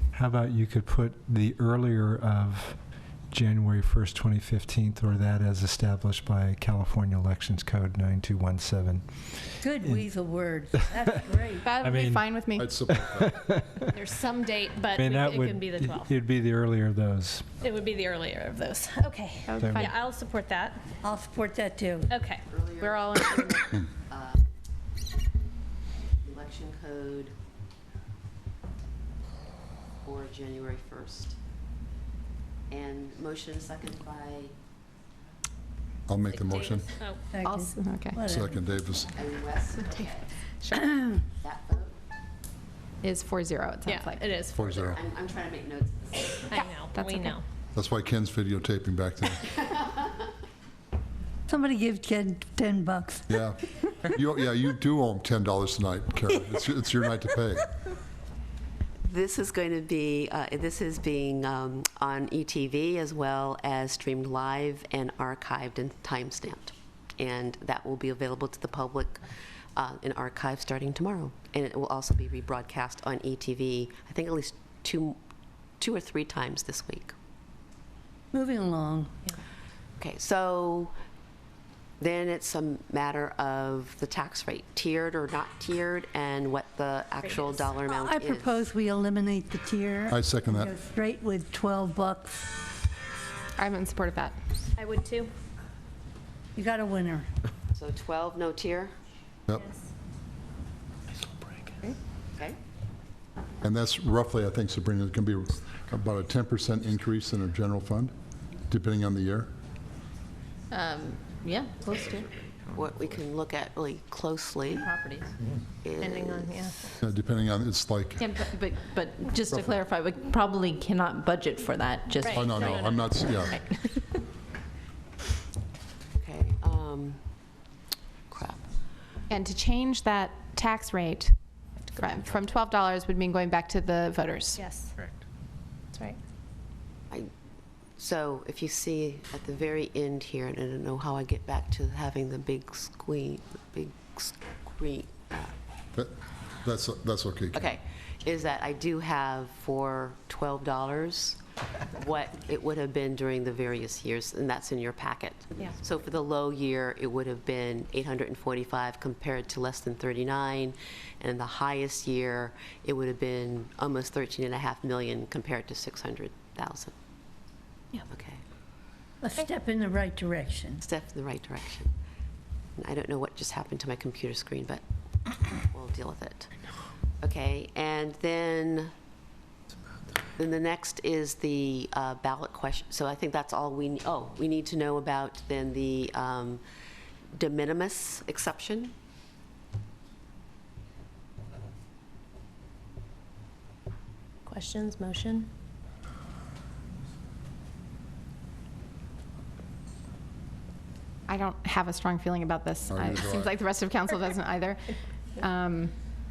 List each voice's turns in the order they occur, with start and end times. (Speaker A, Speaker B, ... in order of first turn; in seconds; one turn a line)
Speaker A: 0.1-2.8
Speaker A: 3.3-10.1
Speaker B: 9.6-11.7
Speaker C: 11.6-12.8
Speaker A: 11.8-14.0
Speaker D: 12.5-13.4
Speaker E: 13.9-16.1
Speaker A: 14.9-17.5
Speaker E: 17.6-20.8
Speaker C: 19.5-19.9
Speaker A: 19.6-19.9
Speaker B: 21.0-22.1
Speaker E: 22.1-22.4
Speaker F: 22.5-24.4
Speaker C: 22.8-23.8
Speaker F: 26.2-27.3
Speaker F: 30.0-31.4
Speaker F: 32.7-34.5
Speaker D: 36.1-36.9
Speaker E: 36.3-37.2
Speaker B: 37.3-38.6
Speaker C: 37.4-38.2
Speaker D: 38.3-39.1
Speaker F: 39.1-40.3
Speaker E: 40.6-41.0
Speaker F: 41.4-42.0
Speaker C: 43.0-44.2
Speaker E: 43.9-44.7
Speaker D: 44.5-45.0
Speaker F: 44.7-46.7
Speaker E: 46.5-47.4
Speaker C: 46.9-47.4
Speaker D: 47.7-49.5
Speaker F: 49.6-50.1
Speaker B: 51.5-53.5
Speaker D: 53.3-57.6
Speaker F: 59.0-69.2
Speaker F: 69.8-75.2
Speaker F: 75.8-77.1
Speaker B: 78.3-79.1
Speaker F: 80.0-80.9
Speaker F: 82.0-88.6
Speaker E: 87.2-87.8
Speaker B: 87.9-92.6
Speaker D: 90.1-90.7
Speaker C: 93.6-94.3
Speaker E: 94.8-95.3
Speaker B: 96.5-97.3
Speaker F: 97.7-98.9
Speaker E: 99.5-99.9
Speaker D: 103.6-108.1
Speaker D: 108.7-109.5
Speaker G: 110.7-112.3
Speaker F: 112.7-114.9
Speaker G: 114.7-115.3
Speaker F: 115.8-116.7
Speaker E: 116.0-116.9
Speaker D: 117.0-118.3
Speaker G: 118.2-122.7
Speaker D: 119.5-119.8
Speaker E: 122.2-123.6
Speaker D: 122.3-123.6
Speaker F: 126.2-127.2
Speaker F: 128.3-128.7
Speaker C: 129.3-131.3
Speaker C: 132.0-134.7
Speaker E: 134.6-134.9
Speaker E: 135.9-136.2
Speaker F: 138.0-145.5
Speaker D: 145.9-147.7
Speaker F: 147.5-151.4
Speaker F: 151.9-166.9
Speaker F: 168.1-168.4
Speaker B: 169.2-170.8
Speaker F: 170.8-171.9
Speaker F: 172.8-174.8
Speaker F: 175.6-176.5
Speaker F: 177.2-178.9
Speaker F: 180.4-186.6
Speaker F: 187.3-188.9
Speaker E: 194.4-195.5
Speaker C: 201.3-205.9
Speaker D: 202.9-203.5